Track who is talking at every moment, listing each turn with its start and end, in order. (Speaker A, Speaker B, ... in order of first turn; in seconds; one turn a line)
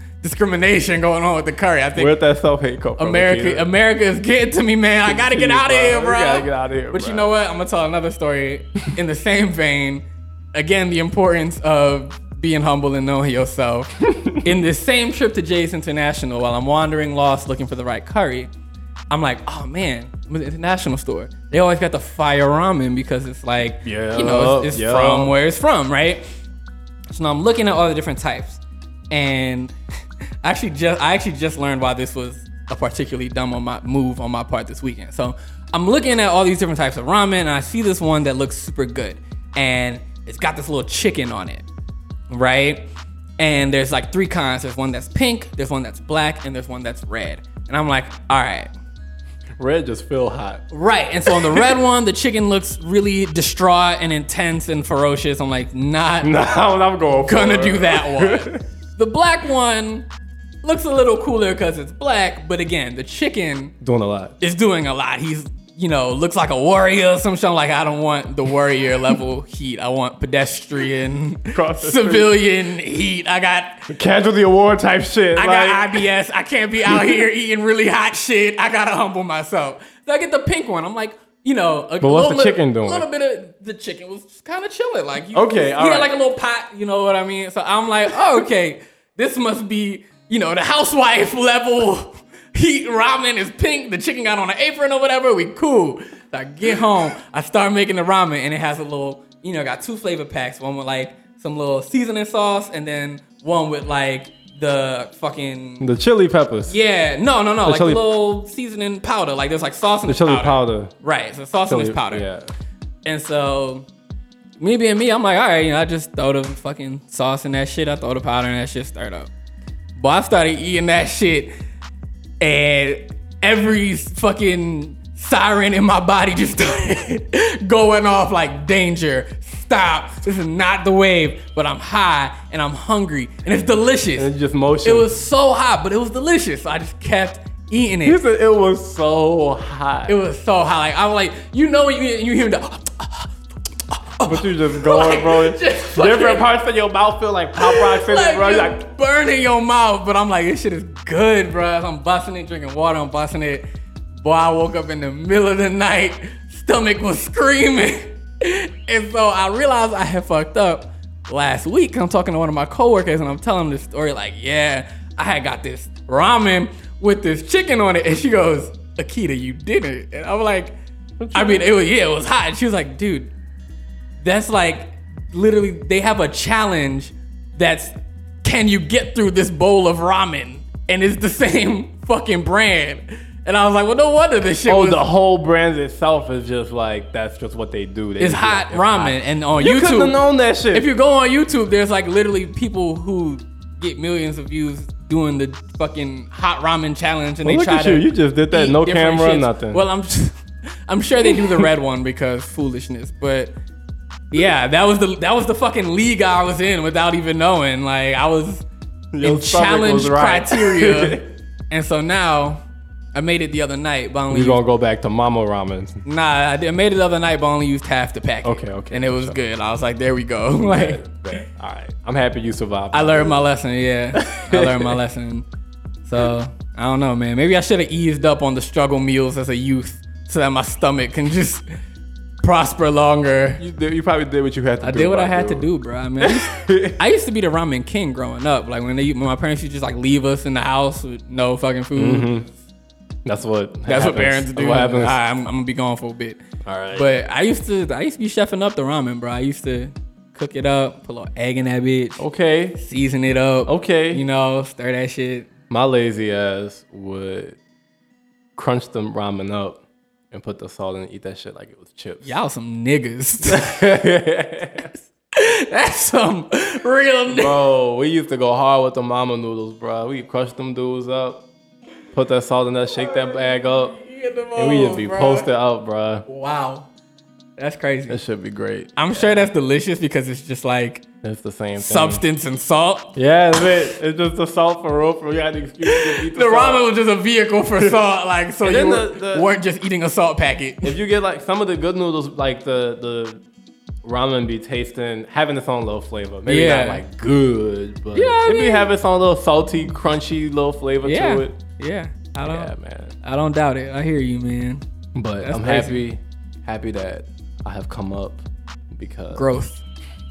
Speaker A: 0.2-2.1
Speaker B: 1.9-3.7
Speaker A: 3.0-13.9
Speaker B: 5.0-7.3
Speaker B: 14.1-14.4
Speaker A: 14.4-18.5
Speaker A: 19.1-26.2
Speaker B: 23.8-25.4
Speaker A: 27.1-28.6
Speaker A: 29.1-29.7
Speaker A: 30.4-41.6
Speaker A: 42.3-42.9
Speaker A: 43.4-48.7
Speaker B: 49.6-50.6
Speaker A: 50.7-56.3
Speaker B: 51.2-51.8
Speaker B: 56.2-58.6
Speaker A: 57.2-60.1
Speaker A: 60.6-63.7
Speaker B: 63.8-64.3
Speaker A: 64.4-73.9
Speaker B: 71.5-72.3
Speaker B: 73.9-76.0
Speaker A: 75.3-105.9
Speaker B: 76.8-77.2
Speaker B: 82.0-83.0
Speaker B: 85.3-86.1
Speaker B: 105.8-106.8
Speaker A: 106.7-112.2
Speaker B: 107.6-108.0
Speaker B: 110.0-110.9
Speaker B: 111.7-112.5
Speaker A: 113.0-113.9
Speaker A: 114.6-119.3
Speaker A: 120.0-121.5
Speaker A: 122.4-134.3
Speaker B: 134.2-135.1
Speaker A: 134.8-138.2
Speaker B: 138.0-140.2
Speaker A: 140.1-143.3
Speaker A: 143.9-146.4
Speaker B: 144.2-148.8
Speaker A: 147.6-153.7
Speaker A: 154.2-170.8
Speaker B: 171.2-171.7
Speaker A: 171.3-173.3
Speaker A: 174.2-185.0
Speaker B: 184.7-190.9
Speaker A: 188.2-203.5
Speaker B: 197.4-199.8
Speaker B: 201.2-201.7
Speaker A: 204.3-208.6
Speaker B: 209.1-211.3
Speaker A: 209.2-212.6
Speaker A: 213.1-214.6
Speaker B: 214.3-216.0
Speaker A: 216.0-221.0
Speaker B: 218.4-219.4
Speaker B: 220.6-223.5
Speaker A: 222.9-225.4
Speaker B: 224.1-225.0
Speaker A: 226.0-231.7
Speaker A: 232.4-233.6
Speaker B: 233.6-235.7
Speaker A: 234.8-242.3
Speaker B: 236.2-237.0
Speaker B: 241.9-242.5
Speaker B: 243.2-245.2
Speaker A: 243.9-246.4
Speaker B: 246.6-247.1
Speaker A: 246.9-252.2
Speaker B: 252.2-252.8
Speaker A: 252.8-255.5
Speaker B: 253.7-254.2
Speaker B: 255.7-257.6
Speaker B: 258.6-259.8
Speaker B: 260.3-262.3
Speaker A: 262.2-263.8
Speaker B: 263.5-264.9
Speaker A: 265.3-267.6
Speaker B: 267.3-271.4
Speaker B: 272.1-274.0
Speaker A: 274.0-275.5
Speaker B: 274.5-276.2
Speaker A: 276.3-276.9
Speaker A: 277.6-278.2
Speaker B: 278.1-279.5
Speaker A: 278.9-281.0
Speaker B: 281.2-282.2
Speaker A: 281.8-283.1
Speaker B: 283.1-286.8
Speaker A: 285.8-290.9
Speaker B: 288.6-289.5
Speaker B: 290.8-293.4
Speaker B: 294.0-301.6
Speaker A: 296.4-297.0
Speaker A: 298.1-298.9
Speaker A: 301.0-304.8
Speaker B: 302.4-303.1
Speaker B: 305.1-309.4
Speaker A: 305.4-306.0
Speaker A: 309.3-309.8